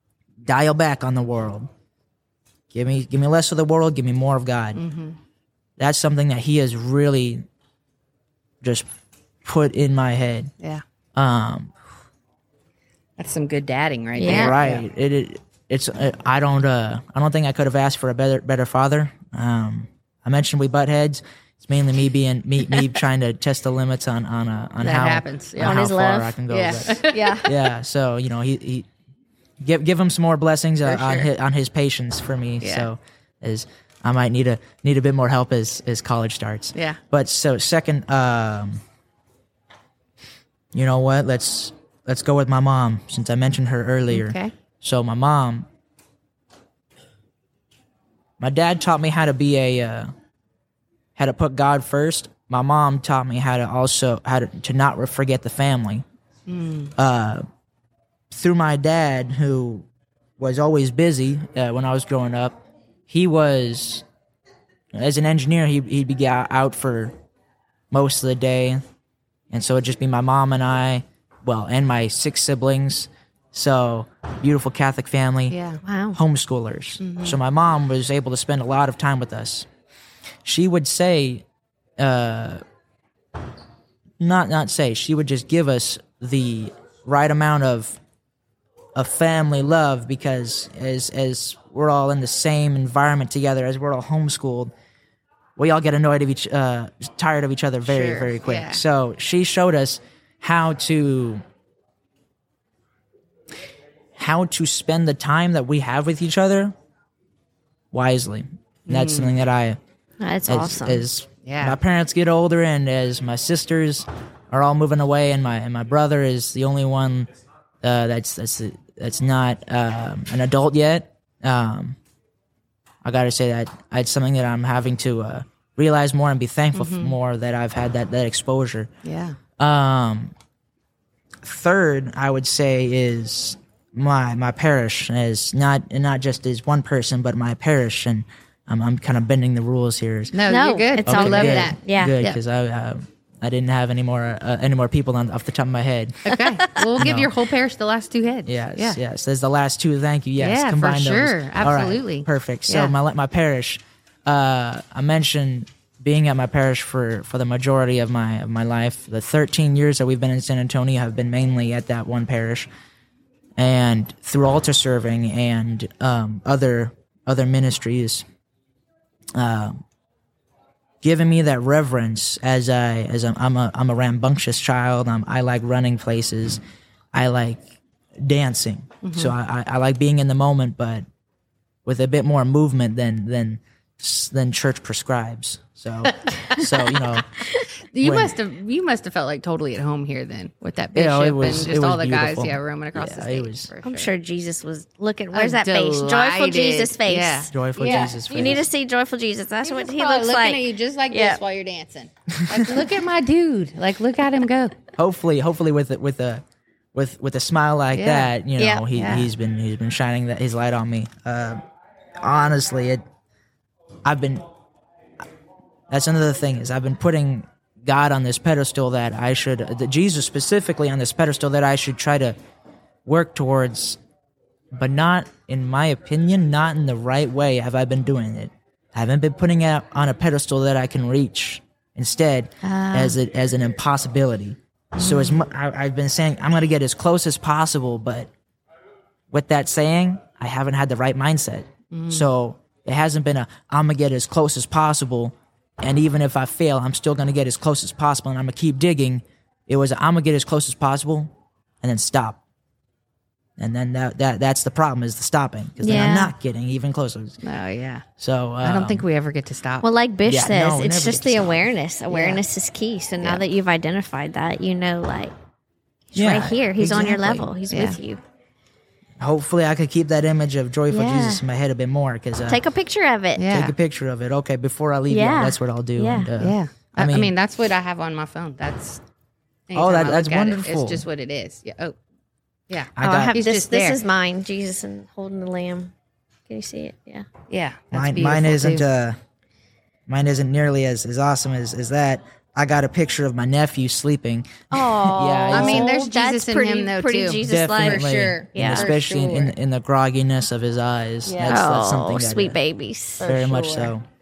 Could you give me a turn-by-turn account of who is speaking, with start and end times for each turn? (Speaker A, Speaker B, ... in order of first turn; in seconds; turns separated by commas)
Speaker A: 0.4-1.7, Speaker A: 2.7-4.8, Speaker B: 4.8-5.2, Speaker A: 5.8-7.4, Speaker A: 9.4-10.5, Speaker A: 11.2-11.7, Speaker B: 13.2-14.8, Speaker C: 14.2-14.5, Speaker A: 14.2-28.9, Speaker B: 24.8-25.8, Speaker C: 25.6-26.4, Speaker B: 26.5-27.6, Speaker A: 29.6-38.8, Speaker B: 30.8-31.3, Speaker B: 32.6-32.9, Speaker B: 36.7-37.0, Speaker A: 40.7-45.6, Speaker B: 44.1-44.5, Speaker A: 48.4-50.1, Speaker A: 51.1-56.0, Speaker B: 56.5-56.9, Speaker A: 57.0-57.4, Speaker A: 58.3-59.9, Speaker A: 60.4-64.0, Speaker A: 64.9-67.1, Speaker A: 67.9-68.8, Speaker A: 69.5-75.6, Speaker B: 75.5-75.8, Speaker C: 75.8-76.2, Speaker A: 76.1-79.7, Speaker B: 77.0-77.4, Speaker A: 80.4-81.4, Speaker A: 82.0-82.6, Speaker A: 84.2-88.0, Speaker A: 88.9-94.7, Speaker A: 95.5-101.4, Speaker B: 97.8-98.8, Speaker A: 104.2-106.7, Speaker A: 107.9-109.8, Speaker B: 108.9-109.4, Speaker C: 110.2-111.1, Speaker A: 110.5-117.3, Speaker B: 111.4-111.8, Speaker A: 117.8-122.0, Speaker A: 123.0-128.9, Speaker B: 126.7-127.2, Speaker B: 129.0-129.4, Speaker A: 129.6-130.3, Speaker A: 131.4-140.3, Speaker B: 140.3-142.4, Speaker C: 140.4-142.1, Speaker A: 141.0-146.2, Speaker B: 146.3-149.0, Speaker A: 146.9-147.3, Speaker A: 148.4-162.7, Speaker B: 150.4-152.9, Speaker A: 163.6-168.2, Speaker A: 169.3-169.8, Speaker A: 171.0-176.6, Speaker A: 177.1-177.6, Speaker A: 178.2-181.0, Speaker B: 179.0-179.3, Speaker A: 181.8-187.3, Speaker B: 186.2-187.2, Speaker B: 187.9-194.1, Speaker A: 188.0-188.4, Speaker A: 190.9-193.7, Speaker C: 193.8-201.4, Speaker B: 195.3-198.7, Speaker A: 197.5-198.7, Speaker B: 199.6-204.8, Speaker A: 202.4-202.6, Speaker A: 204.9-206.4, Speaker A: 206.9-211.6, Speaker B: 207.9-208.3, Speaker C: 208.6-208.9, Speaker B: 208.9-209.3, Speaker A: 212.2-213.0, Speaker A: 214.0-214.4, Speaker A: 215.9-222.3, Speaker A: 223.0-224.0, Speaker A: 224.7-238.3, Speaker B: 232.6-233.2, Speaker B: 235.0-235.4, Speaker A: 239.3-251.3, Speaker B: 241.9-242.3, Speaker A: 251.8-252.4, Speaker A: 253.6-257.4, Speaker C: 255.8-256.4, Speaker B: 257.4-258.0, Speaker A: 258.2-259.0, Speaker B: 258.6-259.9, Speaker C: 259.8-265.3, Speaker A: 260.2-261.6, Speaker B: 262.1-262.4, Speaker B: 263.2-263.5, Speaker C: 266.1-268.2, Speaker A: 266.1-267.5, Speaker B: 267.7-268.0, Speaker A: 269.2-272.6, Speaker C: 270.9-271.4, Speaker C: 272.5-273.5, Speaker B: 273.4-273.8, Speaker A: 273.5-277.3, Speaker C: 275.1-276.3, Speaker B: 276.4-279.0, Speaker B: 279.7-281.9, Speaker A: 279.7-281.1, Speaker B: 282.7-284.0, Speaker A: 282.9-283.4, Speaker C: 283.0-285.9, Speaker C: 286.5-287.3, Speaker B: 287.5-289.0, Speaker A: 287.9-289.2, Speaker A: 290.1-295.9, Speaker C: 294.7-298.9, Speaker B: 295.5-299.5, Speaker A: 297.4-302.6, Speaker B: 301.2-301.6, Speaker C: 301.4-303.3, Speaker B: 303.2-303.9, Speaker A: 303.2-304.0